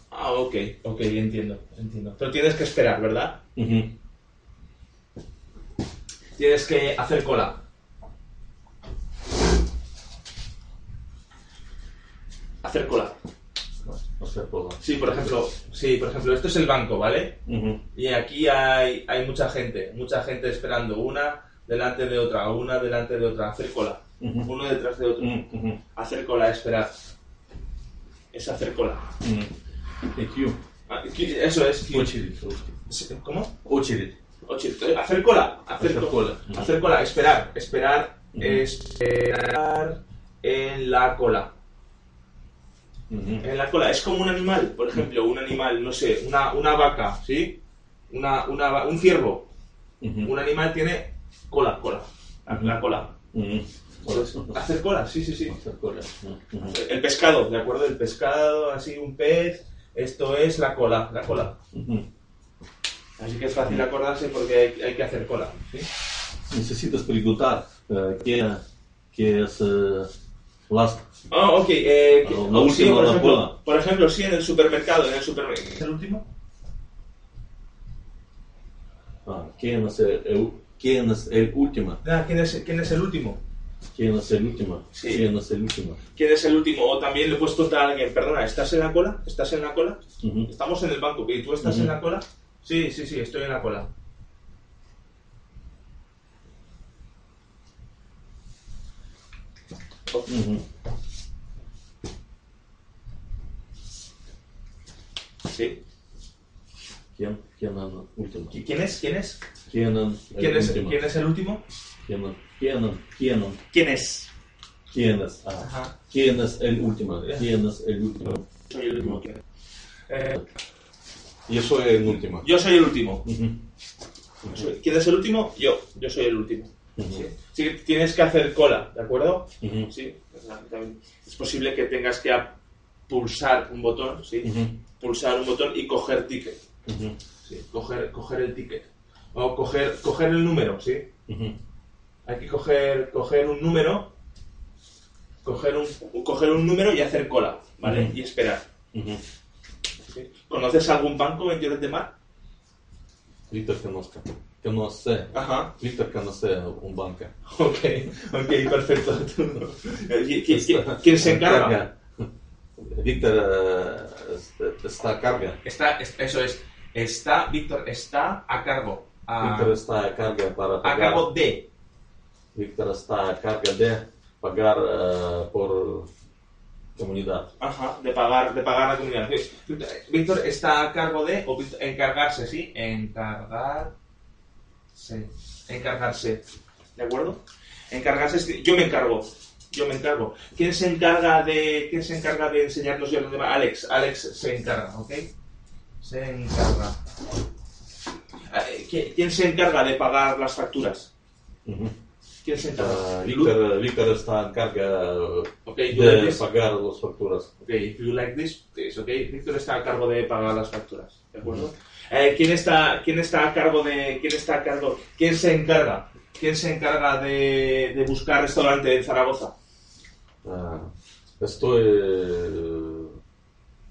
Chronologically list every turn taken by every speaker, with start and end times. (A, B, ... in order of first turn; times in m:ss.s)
0:00.1-0:03.4 A
0:03.6-0:03.9 B
0:06.4-0:07.6 A
0:12.6-0:13.2 A
0:13.9-0:15.3 B
0:14.8-0:17.4 A
0:17.5-0:17.8 B
0:17.9-0:25.4 A
0:24.2-0:24.5 B
0:25.2-0:25.8 B
0:26.0-0:26.9 A
0:28.3-0:29.1 A
0:29.2-0:29.5 B
0:30.1-0:30.6 B
0:30.9-0:32.1 A
0:31.9-0:32.7 B
0:32.9-0:33.5 A
0:33.6-0:34.2 B
0:34.5-0:41.5 A
0:35.8-0:36.7 B
0:38.3-0:38.6 B
0:43.1-0:43.5 B
0:43.4-0:47.6 A
0:48.1-0:49.5 A
0:50.0-0:50.3 B
0:50.2-0:53.2 A
0:52.5-0:52.8 B
0:53.3-0:54.6 B
0:54.1-0:55.6 A
0:55.5-0:56.8 B
0:56.6-1:01.6 A
1:01.7-1:02.1 B
1:03.2-1:05.9 A
1:06.5-1:10.1 B
1:10.7-1:11.0 B
1:11.3-1:16.3 A
1:12.2-1:13.6 B
1:19.3-1:22.0 B
1:22.0-1:23.4 A
1:23.9-1:26.0 B
1:25.0-1:25.2 A
1:26.2-1:33.9 A
1:30.2-1:30.5 B
1:31.6-1:31.9 B
1:40.1-1:40.3 A
1:40.3-1:40.6 B
1:45.4-1:45.8 A
1:47.2-1:48.6 B
1:48.5-1:49.4 A
1:49.7-1:51.0 B
1:50.4-1:51.6 A
1:52.0-1:53.6 B
1:53.7-1:54.3 A
1:54.9-1:59.2 B
1:55.6-1:56.0 A
1:58.7-1:59.4 A
2:00.1-2:00.4 A
2:01.5-2:02.5 B
2:02.4-2:03.2 A
2:03.2-2:03.6 B
2:04.5-2:12.6 A
2:07.0-2:07.3 B
2:09.6-2:09.9 B
2:13.1-2:16.6 A
2:14.4-2:14.8 B
2:16.9-2:17.2 B
2:17.4-2:21.1 A
2:21.3-2:21.6 B
2:22.3-2:24.1 A
2:25.4-2:28.6 A
2:27.8-2:28.1 B
2:28.9-2:29.2 B
2:30.1-2:32.1 A
2:33.5-2:37.3 B
2:35.3-2:35.7 A
2:37.5-2:41.8 A
2:40.5-2:42.3 B
2:42.8-2:45.6 B
2:45.6-2:49.7 A
2:49.4-2:51.3 B
2:50.8-2:51.6 A
2:52.6-2:56.1 B
2:57.0-2:57.5 B
2:57.6-3:03.9 A
3:04.9-3:06.4 A
3:07.0-3:15.3 A
3:16.0-3:17.0 A
3:18.5-3:21.1 A
3:21.7-3:22.0 B
3:22.4-3:23.5 A
3:22.8-3:27.5 B
3:25.7-3:26.5 A
3:27.6-3:39.5 A
3:40.4-3:43.1 B